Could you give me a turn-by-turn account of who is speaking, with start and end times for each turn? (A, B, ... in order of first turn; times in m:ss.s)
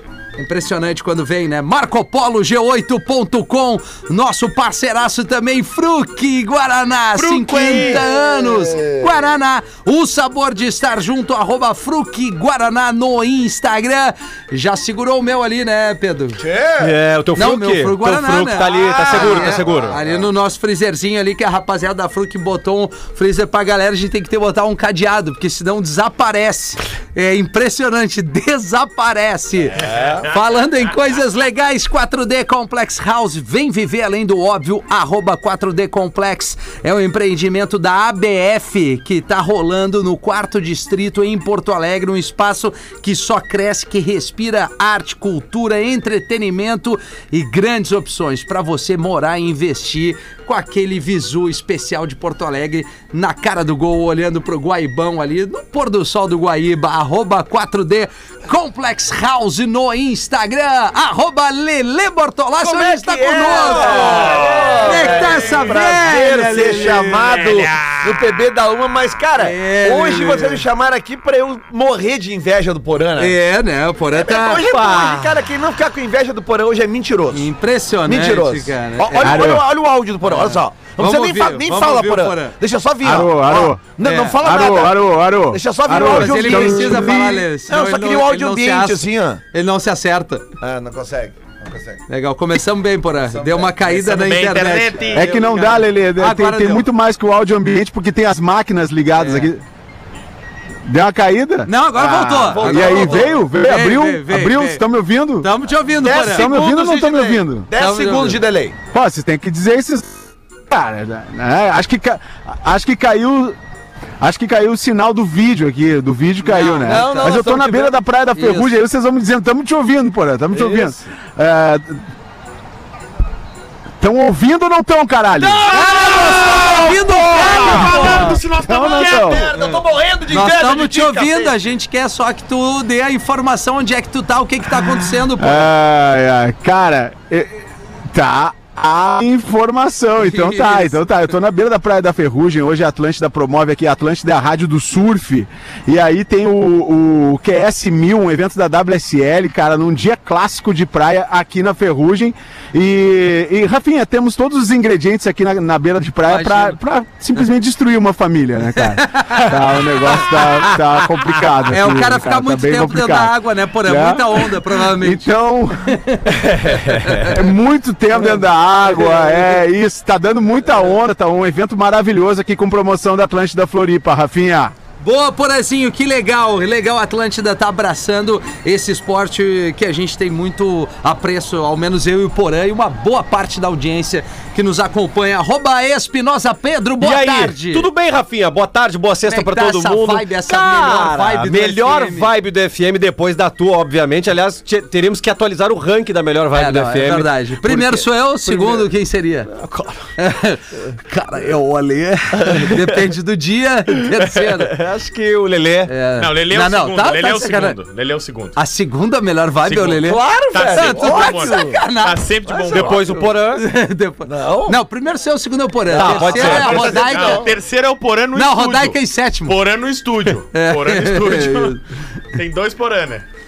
0:00.4-0:16.4 A
0:07.3-0:08.0 B
0:16.4-0:17.0 B
0:16.8-0:20.0 C
0:17.3-1:07.3 A
0:18.8-0:20.2 B
0:29.8-0:30.3 B
1:02.6-1:13.3 B
1:03.8-1:05.0 D
1:07.5-1:08.0 D
1:09.4-1:10.6 A
1:13.2-1:14.7 A
1:14.1-1:17.5 B
1:14.7-1:15.1 C
1:17.3-1:19.6 A
1:18.0-1:25.0 B
1:19.2-1:19.7 E
1:20.2-1:22.6 A
1:23.0-1:27.4 E
1:24.0-1:24.4 A
1:25.5-1:29.4 B
1:25.9-1:30.4 A
1:30.6-1:32.0 B
1:32.1-1:36.9 A
1:33.3-1:33.9 B
1:33.9-1:35.2 D
1:35.1-1:39.6 E
1:39.2-1:39.5 A
1:40.8-1:45.5 E
1:41.7-1:44.8 A
1:42.1-1:43.4 B
1:45.4-1:46.5 A
1:46.0-1:48.8 B
1:46.2-1:47.7 E
1:47.8-1:48.4 A
1:48.9-1:53.6 E
1:54.2-2:02.0 E
1:56.4-1:57.4 A
1:56.6-1:58.0 B
1:58.4-1:58.7 A
2:00.5-2:01.0 B
2:04.0-2:05.7 E
2:05.6-2:08.4 A
2:05.7-2:06.9 B
2:07.3-2:09.5 D
2:07.4-2:09.5 E
2:07.4-2:08.0 B
2:08.8-2:11.5 B
2:09.5-2:15.7 A
2:15.4-2:46.3 E
2:20.2-2:21.0 A
2:36.3-2:36.8 A
2:38.8-2:45.3 A
2:46.0-2:47.4 A
2:47.2-2:54.7 E
2:49.0-2:49.6 A
2:55.0-3:07.9 A
3:07.0-3:18.9 C
3:09.3-3:12.3 A
3:16.5-3:19.5 A
3:19.5-3:20.0 C
3:20.2-3:24.7 A
3:22.4-3:23.0 C
3:24.4-3:25.9 C
3:25.9-3:27.8 A
3:26.2-3:28.6 D
3:28.6-3:30.2 A
3:29.7-3:33.0 D
3:30.0-3:31.8 B
3:30.7-3:32.2 A
3:32.5-3:33.3 B
3:32.7-3:33.6 C
3:33.5-3:37.4 A
3:34.2-3:34.8 B
3:35.9-3:37.5 B
3:36.0-3:36.8 C
3:36.2-3:41.8 D
3:38.3-3:39.5 A
3:40.5-3:41.8 A
3:42.3-3:43.2 D